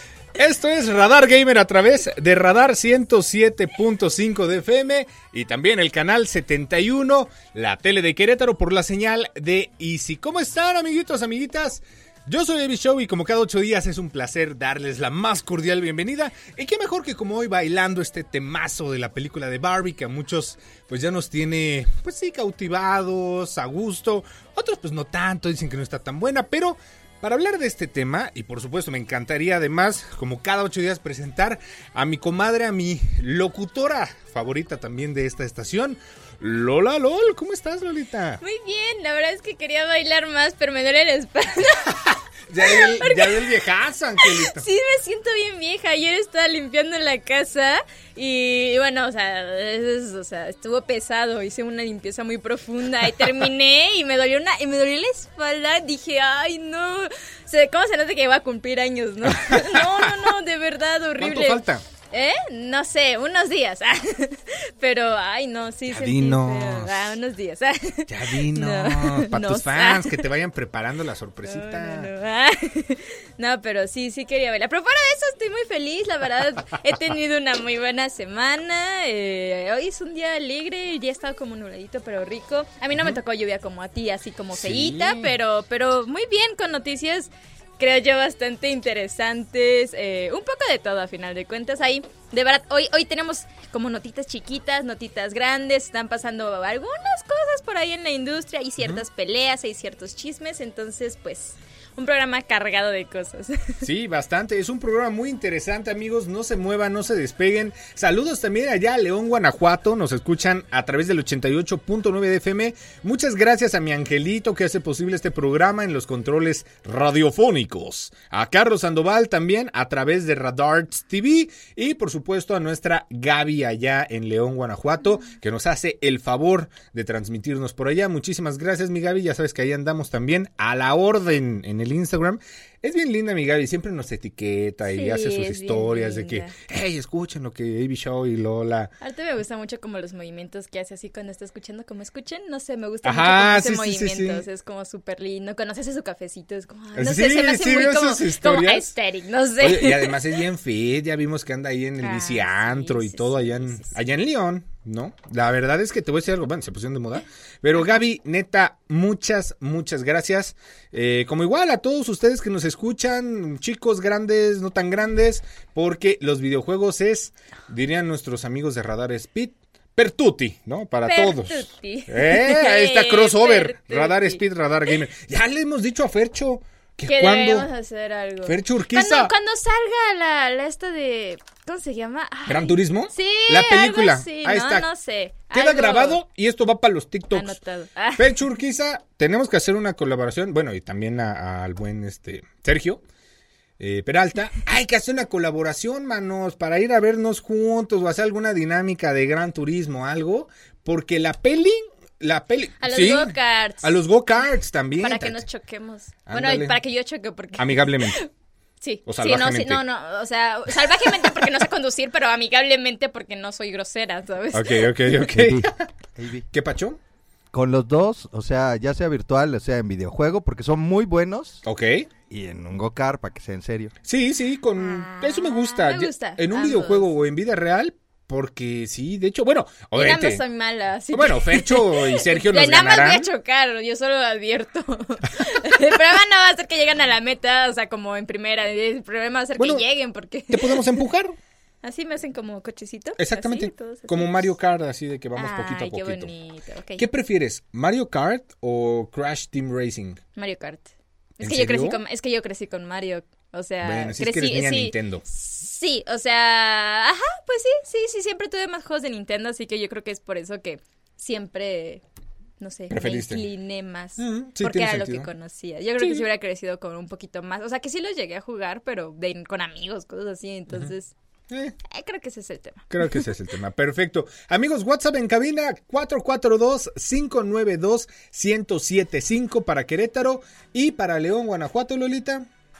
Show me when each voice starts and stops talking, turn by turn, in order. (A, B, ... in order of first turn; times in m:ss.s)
0:00.4-0:38.4 A
0:38.4-0:42.0 B
0:42.1-0:44.6 A
0:42.6-0:43.5 B
0:44.2-1:10.3 B
0:59.2-1:00.3 A
1:01.2-1:01.8 A
1:05.9-1:07.2 A
1:08.1-1:12.1 A
1:11.4-1:43.8 B
1:24.6-1:25.3 A
1:43.8-2:18.9 A
2:14.9-2:16.6 B
2:19.0-2:30.2 B
2:23.0-2:24.4 A
2:27.0-2:28.9 A
2:29.6-2:57.7 A
2:32.0-2:34.0 B
2:51.1-2:54.4 B
2:57.1-3:06.2 B
2:58.4-2:59.3 A
3:02.5-3:04.9 A
3:05.5-3:07.6 A
3:07.3-3:08.4 B
3:08.2-3:13.0 A
3:13.8-3:25.4 A
3:22.8-3:24.0 B
3:25.0-3:28.3 B
3:26.3-3:26.8 A
3:27.6-3:28.2 A
3:28.8-3:34.9 B
3:29.1-3:29.8 A
3:30.7-3:31.6 A
3:34.5-3:35.9 A
3:35.2-3:36.5 C
3:36.5-3:37.0 A
3:37.5-3:41.6 C
3:41.6-3:42.1 A
3:42.3-3:43.9 C
3:44.0-3:50.4 A
3:44.8-3:47.1 B
3:50.0-4:00.9 B
3:51.1-3:53.3 A
3:59.6-3:59.8 A
4:00.5-4:01.4 A
4:01.8-4:04.5 B
4:03.2-4:06.3 A
4:05.4-4:07.1 B
4:07.0-4:10.2 A
4:10.4-4:22.0 B
4:11.4-4:12.0 A
4:13.8-4:15.2 A
4:22.6-4:31.1 B
4:22.9-4:23.5 A
4:24.2-4:25.3 A
4:26.0-4:26.2 A
4:31.5-4:31.8 A
4:31.9-4:33.3 B
4:32.9-4:42.5 A